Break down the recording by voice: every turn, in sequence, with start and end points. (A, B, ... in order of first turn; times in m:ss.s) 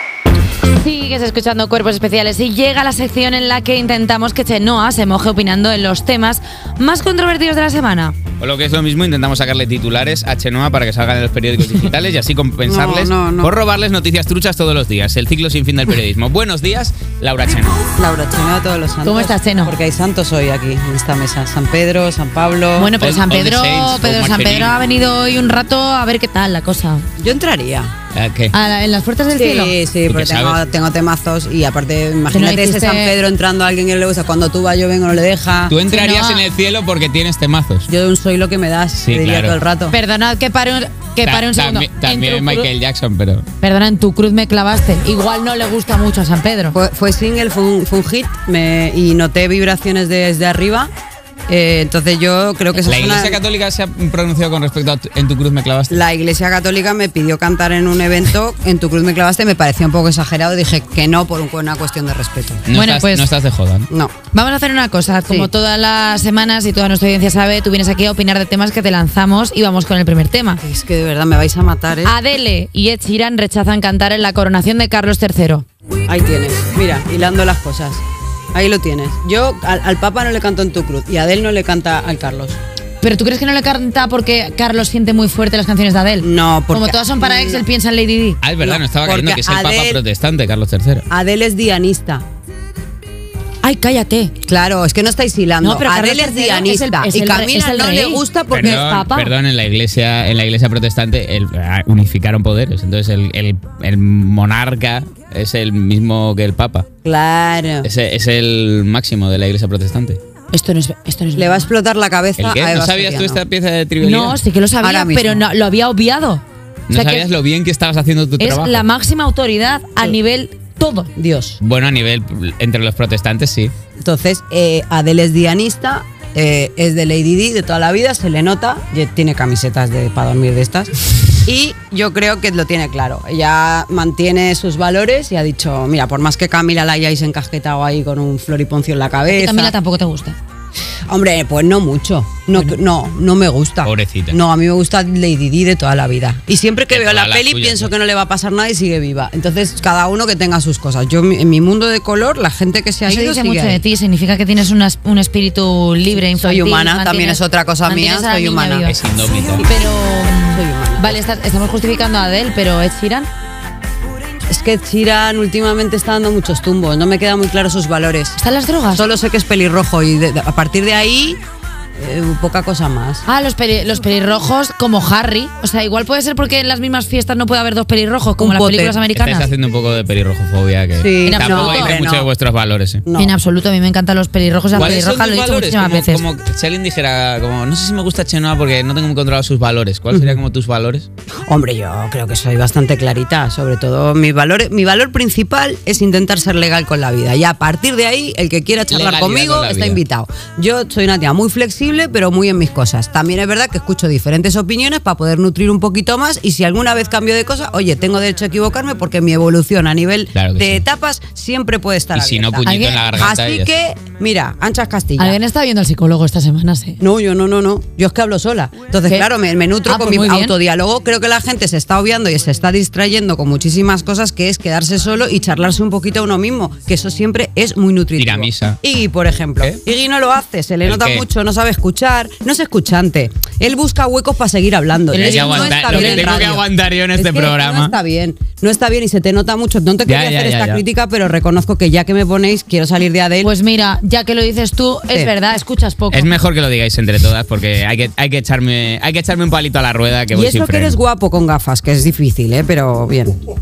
0:00.7-0:08.2 A
0:08.4-0:17.8 B
0:12.6-0:13.5 C
0:17.4-0:23.0 C
0:19.0-0:19.7 A
0:22.8-0:27.0 A
0:23.0-0:24.7 B
0:27.2-0:27.9 C
0:28.1-0:28.5 B
0:28.5-0:29.8 A
0:29.3-0:35.8 C
0:30.0-0:30.6 B
0:32.3-0:33.1 A
0:35.7-0:37.9 B
0:35.9-0:36.4 A
0:37.9-0:39.9 C
0:39.0-0:39.6 B
0:39.9-0:42.7 A
0:41.2-0:43.4 B
0:43.6-0:46.8 A
0:46.7-0:50.9 C
0:51.5-0:53.4 C
0:52.8-0:56.0 B
0:55.9-1:02.7 C
1:02.7-1:03.9 B
1:02.7-1:03.3 A
1:03.9-1:04.1 C
1:04.3-1:10.6 A
1:10.6-1:12.1 C
1:12.0-1:15.6 A
1:16.1-1:18.0 C
1:18.5-1:22.6 C
1:23.0-1:28.4 A
1:26.2-1:27.6 C
1:28.4-1:31.0 B
1:28.6-1:30.0 C
1:31.1-1:32.2 C
1:33.6-1:34.3 A
1:34.4-1:39.3 C
1:35.6-1:38.2 A
1:38.5-1:46.8 B
1:47.0-1:47.9 C
1:47.8-1:50.2 B
1:50.5-1:51.7 A
1:51.3-1:53.4 C
1:52.4-1:54.4 B
1:54.0-1:57.2 A
1:54.8-1:55.4 C
1:56.9-1:58.8 B
1:58.4-2:01.1 A
2:01.2-2:01.6 C
2:01.6-2:03.7 B
2:04.0-2:19.7 C
2:19.3-2:20.4 A
2:21.1-2:33.8 C
2:23.8-2:24.4 B
2:26.9-2:27.9 B
2:33.0-2:39.0 A
2:36.1-2:41.2 C
2:38.8-2:39.6 B
2:39.6-2:43.3 A
2:44.5-2:48.4 C
2:48.4-2:49.0 A
2:48.9-2:51.4 C
2:52.0-2:53.2 C
2:53.2-2:59.5 A
2:58.4-2:59.0 C
2:59.2-3:03.0 B
3:00.9-3:02.3 C
3:01.2-3:01.9 A
3:03.0-3:03.4 C
3:03.2-3:06.2 A
3:04.7-3:11.1 B
3:11.5-3:35.4 C
3:18.9-3:20.0 B
3:30.3-3:30.8 B
3:32.1-3:33.7 B
3:32.6-3:33.0 A
3:35.2-3:37.0 A
3:37.0-4:03.5 C
3:39.8-3:40.5 A
3:48.2-3:48.8 B
3:50.8-3:51.2 B
3:55.1-3:56.5 A
3:55.1-3:57.9 B
4:00.1-4:00.8 B
4:03.4-4:06.3 A
4:06.1-4:11.0 B
4:10.3-4:13.3 C